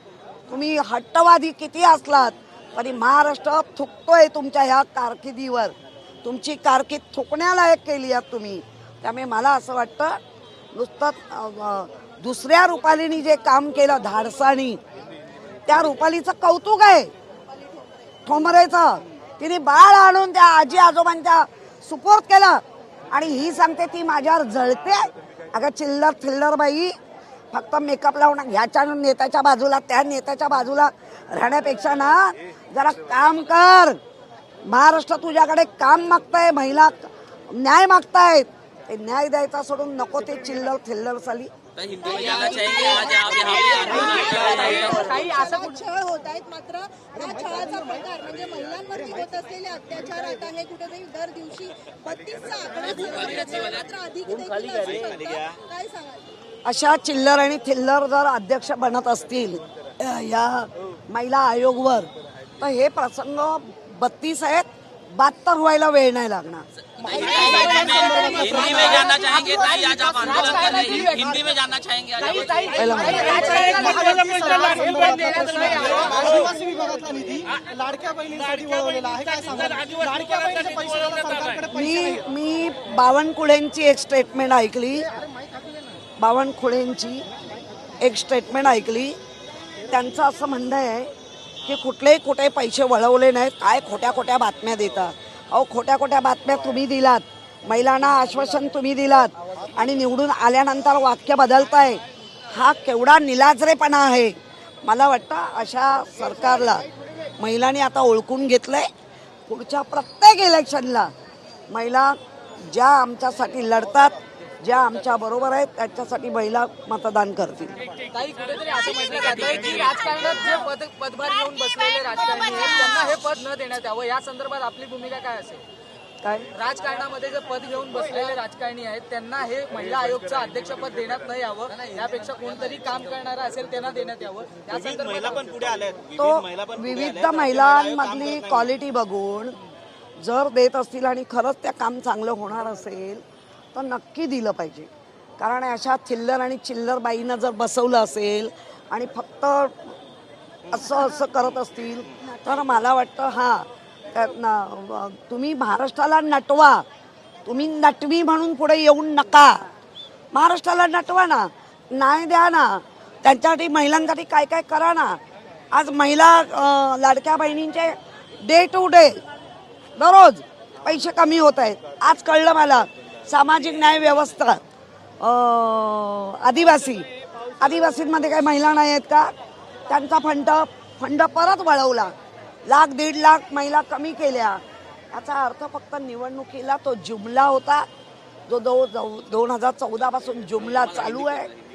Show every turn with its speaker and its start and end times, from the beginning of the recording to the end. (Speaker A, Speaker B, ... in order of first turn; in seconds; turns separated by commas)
Speaker A: 0.5-10.2, Speaker A: 10.7-14.8, Speaker A: 15.7-17.1, Speaker A: 18.2-26.9, Speaker A: 27.5-34.0, Speaker A: 34.6-41.5, Speaker B: 41.8-45.2, Speaker C: 42.2-43.2, Speaker D: 44.1-45.8, Speaker C: 44.7-56.3, Speaker B: 52.9-53.8, Speaker E: 54.9-55.5, Speaker A: 56.6-66.7, Speaker B: 66.9-73.1, Speaker D: 67.2-71.4, Speaker C: 67.8-69.0, Speaker D: 72.2-76.6, Speaker A: 72.7-73.7, Speaker B: 73.9-74.9, Speaker C: 73.9-81.7, Speaker B: 78.4-81.6, Speaker A: 81.7-85.1, Speaker A: 86.2-87.2, Speaker A: 88.0-89.2, Speaker A: 89.9-91.1, Speaker A: 91.6-106.8, Speaker A: 107.4-108.9, Speaker A: 109.5-111.1, Speaker A: 111.7-117.7, Speaker D: 118.1-125.6, Speaker B: 118.9-120.1, Speaker A: 126.2-126.5, Speaker D: 126.5-135.5, Speaker E: 134.7-138.4, Speaker A: 136.2-139.6, Speaker A: 140.2-143.2, Speaker A: 143.7-150.0, Speaker A: 150.7-156.8, Speaker A: 157.4-159.6, Speaker A: 160.3-165.2, Speaker A: 165.7-169.2, Speaker A: 169.9-174.6, Speaker A: 175.2-177.1, Speaker A: 177.6-179.3, Speaker A: 179.9-182.1, Speaker A: 182.7-184.6, Speaker A: 185.1-187.9, Speaker A: 188.5-191.5, Speaker B: 190.6-191.6